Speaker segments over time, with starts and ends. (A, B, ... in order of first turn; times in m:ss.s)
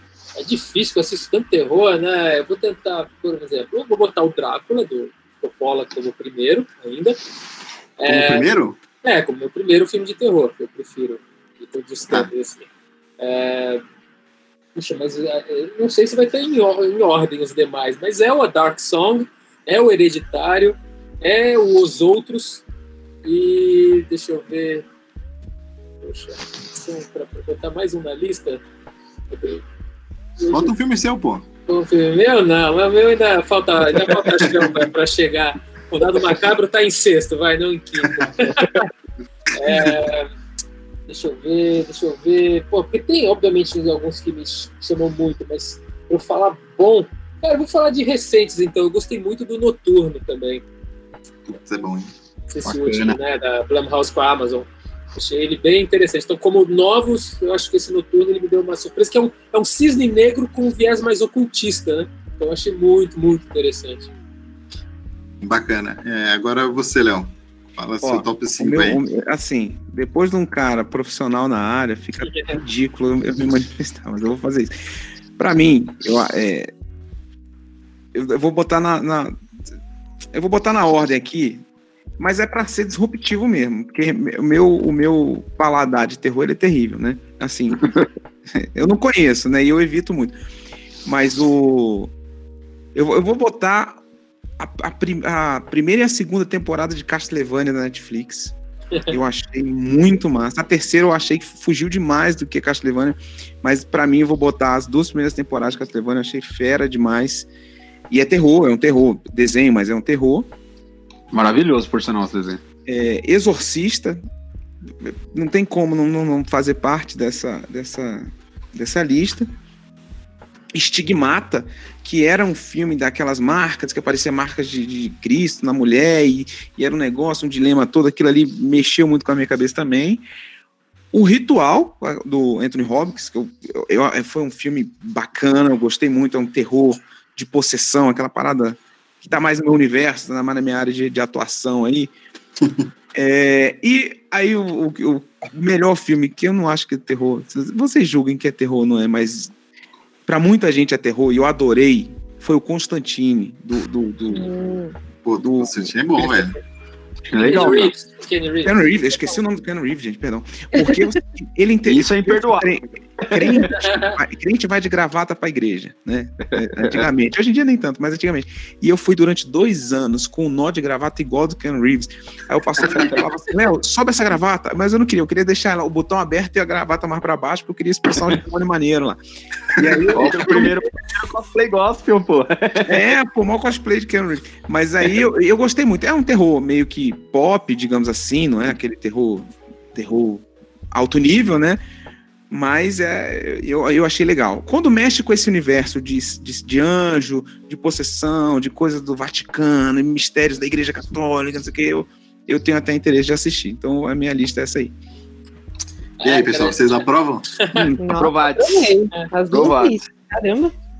0:00.4-0:07.2 A
0:08.0-0:08.5 A
0:08.1-0:08.8 B
0:09.0-0:12.7 A
0:13.2-0:13.8 A
0:14.7-0:22.6 A
0:23.2-0:24.8 A
0:26.0-0:28.6 A
0:29.3-0:29.6 A
0:30.4-0:30.7 A
0:30.5-0:31.4 B
0:31.7-0:38.9 A
0:34.4-0:34.8 B
0:38.0-0:38.3 B
0:39.5-0:40.3 A
0:39.7-0:39.9 B
0:41.1-0:50.6 A
0:51.5-0:52.1 B
0:52.5-1:04.1 A
0:52.6-0:53.2 C
1:05.4-1:09.0 B
1:08.0-1:14.7 D
1:12.2-1:12.6 A
1:15.4-1:16.7 D
1:18.1-1:19.4 D
1:20.3-1:21.6 D
1:22.2-1:27.9 D
1:28.6-1:30.4 D
1:31.0-1:32.1 D
1:32.9-1:34.0 D
1:34.6-1:38.5 D
1:39.1-1:47.5 D
1:48.1-1:50.5 D
1:51.3-1:52.6 C
1:52.8-1:54.2 D
1:55.0-1:59.5 D
2:00.7-2:10.2 D
2:11.1-2:22.1 D
2:23.1-2:29.5 D
2:30.2-2:34.5 D
2:34.3-2:34.9 E
2:35.2-2:36.6 B
2:35.4-2:35.9 D
2:37.3-2:37.9 C
2:37.4-2:39.4 A
2:38.6-2:59.2 D
2:41.8-2:43.7 C
2:43.8-2:44.1 A
2:46.8-2:47.0 C
2:59.8-3:00.8 D
2:59.8-3:00.1 B
3:00.1-3:03.0 C
3:02.9-3:11.8 D
3:12.5-3:24.9 D
3:26.2-3:27.0 A
3:26.2-3:27.5 B
3:27.6-3:27.9 A
3:27.7-3:28.0 D
3:28.0-3:30.7 E
3:28.2-3:28.9 C
3:29.5-3:30.0 C